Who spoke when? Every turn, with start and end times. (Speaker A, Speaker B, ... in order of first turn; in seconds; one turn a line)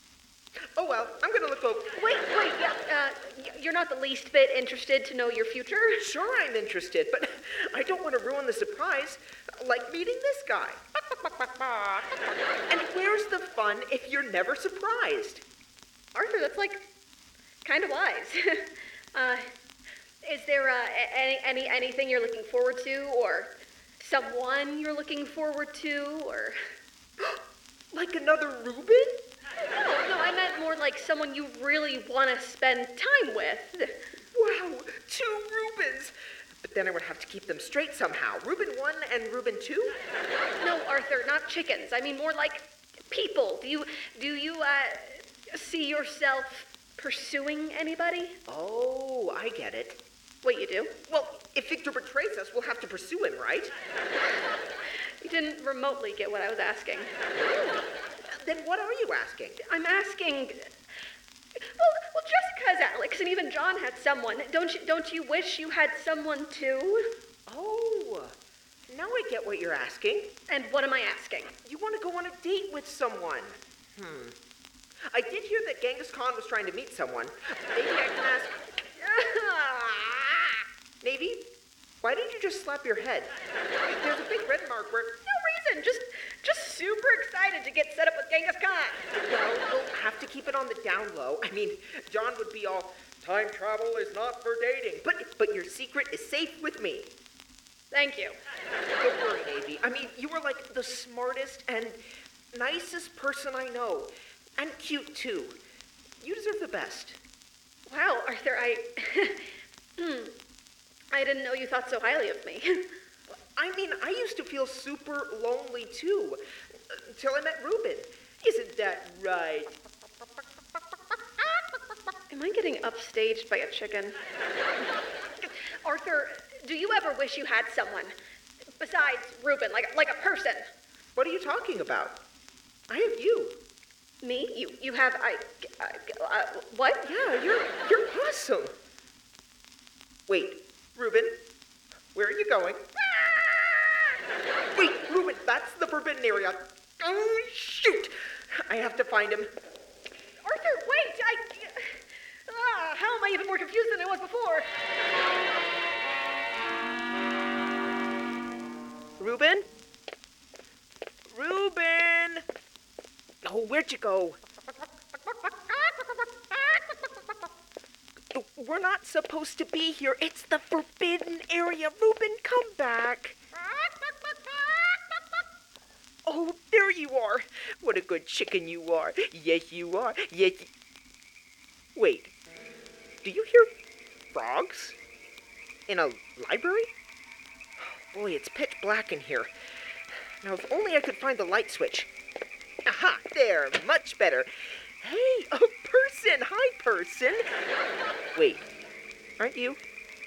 Speaker A: 0.8-1.9
Speaker B: 1.9-6.0
Speaker A: 6.0-10.8
Speaker A: 12.7-15.4
Speaker B: 16.1-16.8
Speaker B: 17.6-19.5
Speaker B: 20.2-26.6
Speaker A: 27.9-29.2
Speaker B: 29.6-34.0
Speaker A: 34.3-40.0
Speaker B: 40.6-48.4
Speaker A: 48.5-50.0
Speaker B: 50.4-51.0
Speaker A: 51.1-53.7
Speaker B: 55.2-57.1
Speaker A: 57.3-59.6
Speaker B: 59.6-60.7
Speaker B: 61.8-67.2
Speaker A: 67.5-68.3
Speaker A: 68.9-70.4
Speaker B: 70.5-71.5
Speaker A: 71.6-74.4
Speaker A: 75.1-78.6
Speaker B: 79.0-80.5
Speaker A: 81.0-81.5
Speaker A: 82.0-83.3
Speaker A: 83.9-85.2
Speaker B: 85.3-89.1
Speaker A: 89.1-97.1
Speaker B: 97.9-98.4
Speaker A: 98.9-102.0
Speaker A: 102.5-105.6
Speaker A: 106.2-107.2
Speaker B: 107.9-110.3
Speaker B: 111.1-112.9
Speaker A: 113.3-119.8
Speaker B: 122.3-124.2
Speaker B: 125.8-128.2
Speaker B: 128.8-130.7
Speaker A: 131.2-132.2
Speaker A: 132.9-133.6
Speaker B: 134.2-137.1
Speaker A: 137.0-138.8
Speaker A: 140.3-141.4
Speaker A: 142.1-142.9
Speaker A: 144.7-149.5
Speaker B: 150.4-151.9
Speaker B: 152.5-154.7
Speaker A: 159.2-159.7
Speaker A: 161.3-162.4
Speaker A: 163.4-164.4
Speaker A: 166.5-167.0
Speaker A: 168.3-173.4
Speaker A: 176.2-180.7
Speaker A: 182.0-182.3
Speaker A: 183.2-183.7
Speaker A: 184.3-185.0
Speaker A: 185.9-186.9
Speaker A: 188.1-189.5
Speaker A: 190.4-192.1
Speaker A: 192.8-197.5
Speaker A: 198.3-198.7
Speaker A: 199.4-199.8